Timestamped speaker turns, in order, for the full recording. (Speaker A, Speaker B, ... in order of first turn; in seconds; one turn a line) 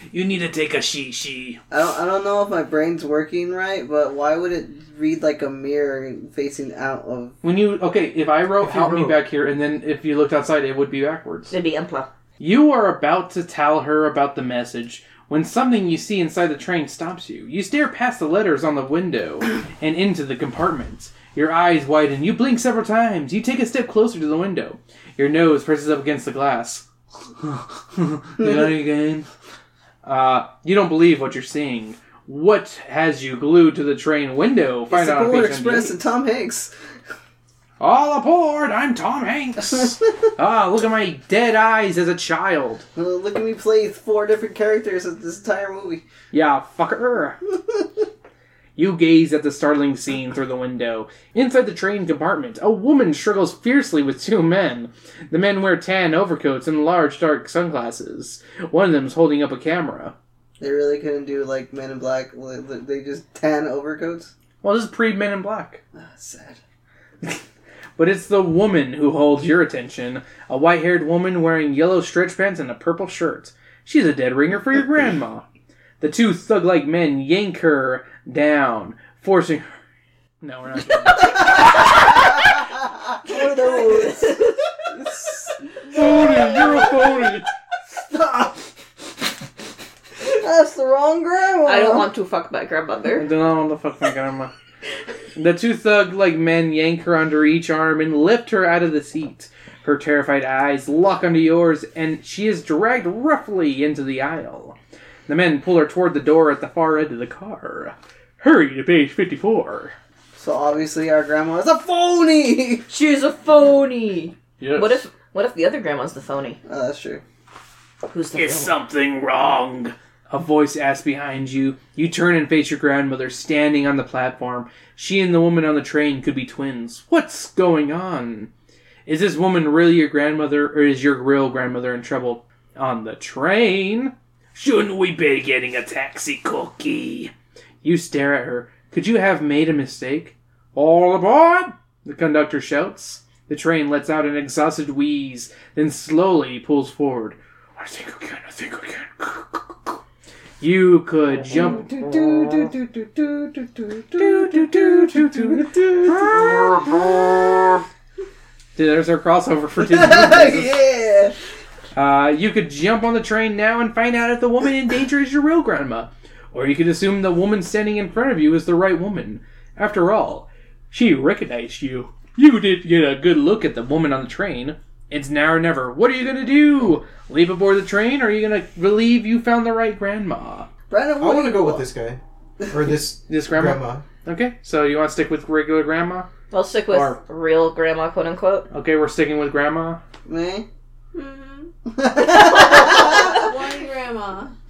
Speaker A: 0.1-1.6
Speaker B: 1.7-7.3
Speaker A: 7.4-11.5
Speaker C: 8.6-9.2
Speaker D: 11.5-12.1
Speaker A: 12.4-26.8
Speaker A: 27.4-29.3
Speaker A: 30.0-36.0
Speaker B: 34.9-36.7
Speaker A: 37.8-42.9
Speaker B: 43.0-46.0
Speaker A: 46.3-47.4
Speaker A: 48.8-60.1
Speaker B: 60.6-64.3
Speaker A: 64.6-65.8
Speaker B: 66.0-66.6
Speaker A: 68.0-75.4
Speaker A: 76.0-79.7
Speaker A: 80.4-82.3
Speaker B: 83.2-84.4
Speaker D: 83.2-84.5
Speaker B: 84.9-87.2
Speaker A: 85.9-87.5
Speaker B: 87.9-88.7
Speaker B: 90.2-92.1
Speaker D: 91.6-93.3
Speaker A: 93.2-94.5
Speaker A: 95.3-104.8
Speaker A: 105.3-110.0
Speaker B: 110.4-112.8
Speaker D: 112.9-116.6
Speaker A: 114.6-115.0
Speaker B: 116.7-117.2
Speaker D: 118.1-118.7
Speaker A: 118.3-128.5
Speaker A: 129.1-137.3
Speaker A: 137.8-150.0
Speaker A: 150.6-152.3
Speaker B: 151.5-157.1
Speaker A: 154.1-157.8
Speaker A: 158.8-160.7
Speaker B: 159.8-161.3
Speaker A: 161.9-180.7
Speaker B: 180.9-181.8
Speaker C: 181.2-184.0
Speaker A: 183.2-186.3
Speaker D: 186.5-188.7
Speaker A: 186.9-187.2
Speaker A: 188.7-190.0
Speaker B: 190.2-190.7
Speaker E: 191.1-191.7
Speaker B: 191.9-193.4
Speaker E: 192.7-194.5